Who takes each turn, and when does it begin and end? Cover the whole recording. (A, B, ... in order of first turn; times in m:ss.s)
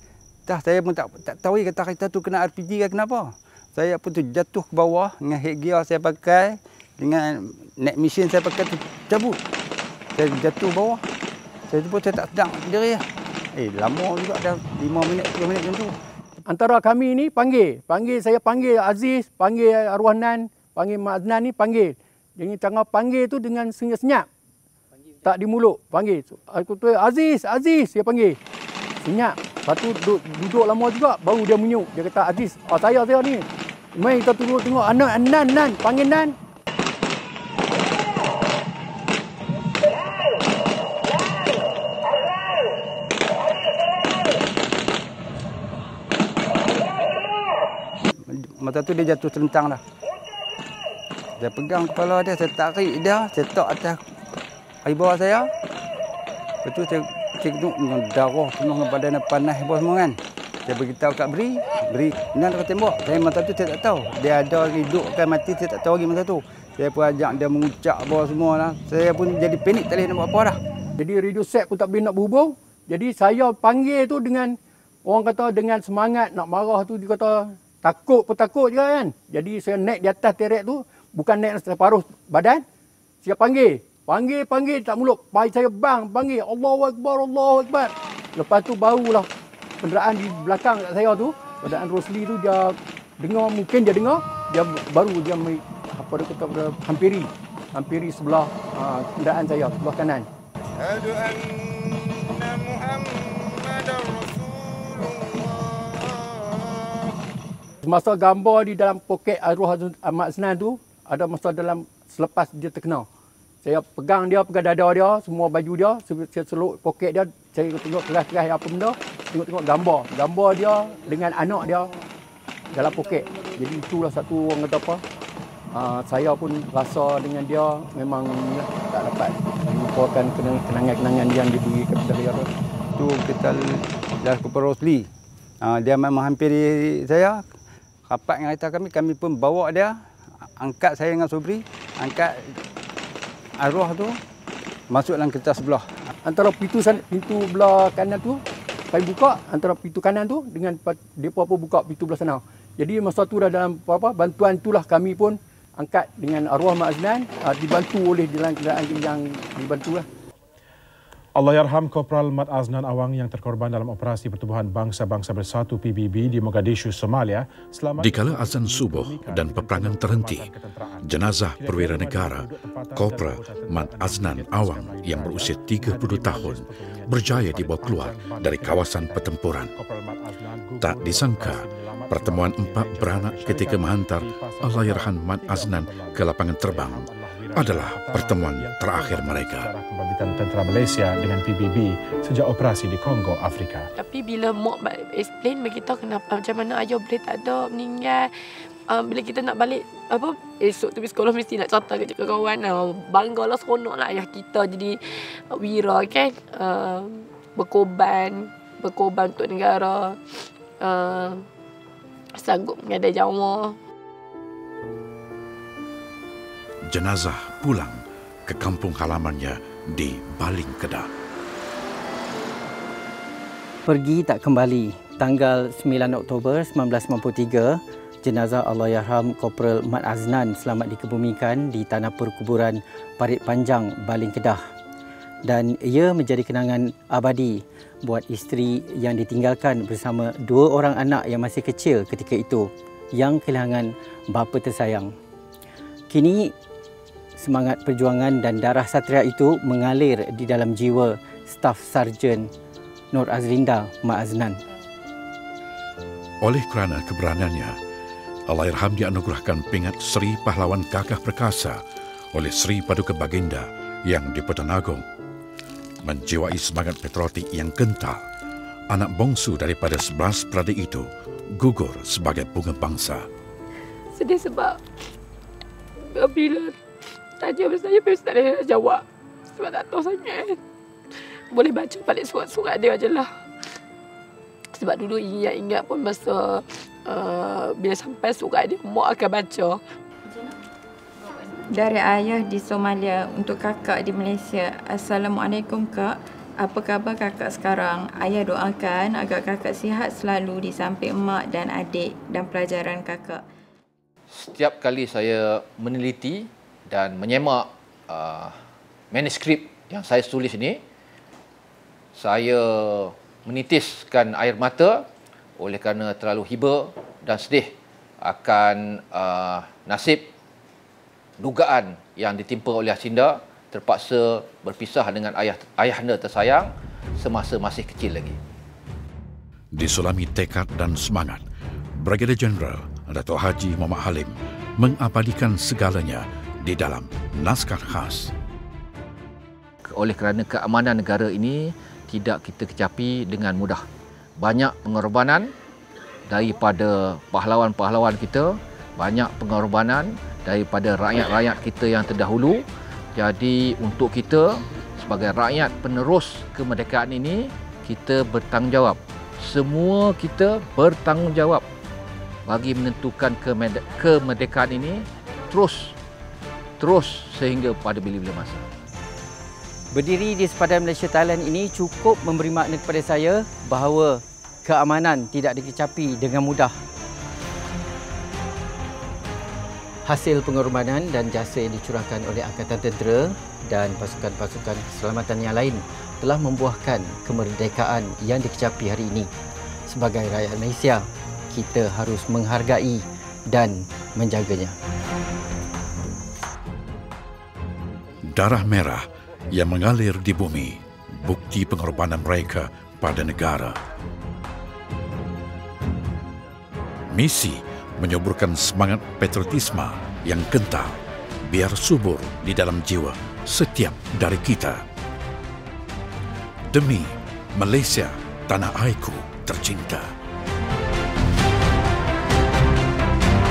0:00.5-0:09.4 A
0:10.1-0:11.0 A
0:11.7-0:13.0 A
0:13.5-0:15.9 A
0:16.5-0:24.3 B
0:25.2-0:28.4 B
0:29.0-0:36.3 B
0:48.3-0:49.8 A
0:51.4-0:54.0 A
0:54.8-0:55.5 A
0:56.6-1:10.6 A
1:11.0-1:14.5 B
1:15.0-1:22.6 B
1:23.2-1:29.3 B
1:29.8-1:40.3 B
1:47.8-1:53.1 B
1:53.6-2:01.9 B
2:02.7-2:05.0 B
2:05.7-2:12.5 B
2:12.9-2:15.1 A
2:15.6-2:17.4 A
2:18.1-2:19.9 A
2:20.6-2:22.6 A
2:23.6-2:24.2 A
2:24.9-2:26.1 A
2:26.2-2:28.4 B
2:28.9-2:40.0 B
2:41.4-3:13.9 C
2:48.0-2:50.5 D
2:51.0-2:59.7 D
3:00.8-3:09.7 D
3:14.0-3:31.4 E
3:32.4-3:33.8 E
3:36.9-3:41.1 D
3:43.9-3:54.6 F
3:55.5-4:05.1 F
4:06.1-4:06.5 F
4:07.4-4:12.5 F
4:13.1-4:14.6 F
4:16.4-4:17.8 D
4:18.5-4:21.8 D
4:22.3-4:25.0 D
4:26.0-4:28.2 D
4:28.9-4:33.2 D
4:34.1-4:34.8 E
4:36.0-4:36.8 E
4:37.4-4:40.6 E
4:41.2-4:43.4 E
4:44.7-4:49.8 E
4:50.2-4:50.5 G
4:51.5-5:03.4 G
5:04.3-5:08.6 H
5:09.1-5:10.8 H
5:12.2-5:15.0 H
5:15.6-5:20.3 H
5:21.4-5:28.4 H
5:29.7-5:31.4 D
5:32.0-5:38.3 D
5:39.9-5:43.8 H
5:44.4-5:45.5 H
5:46.3-5:52.6 H
5:53.1-6:01.6 H
6:02.5-6:06.0 H
6:06.8-6:08.6 H
6:09.9-6:16.7 F
6:20.1-6:29.3 F
6:29.9-6:34.7 F
6:38.3-6:43.8 D
6:47.1-6:54.8 D
6:56.7-7:00.1 D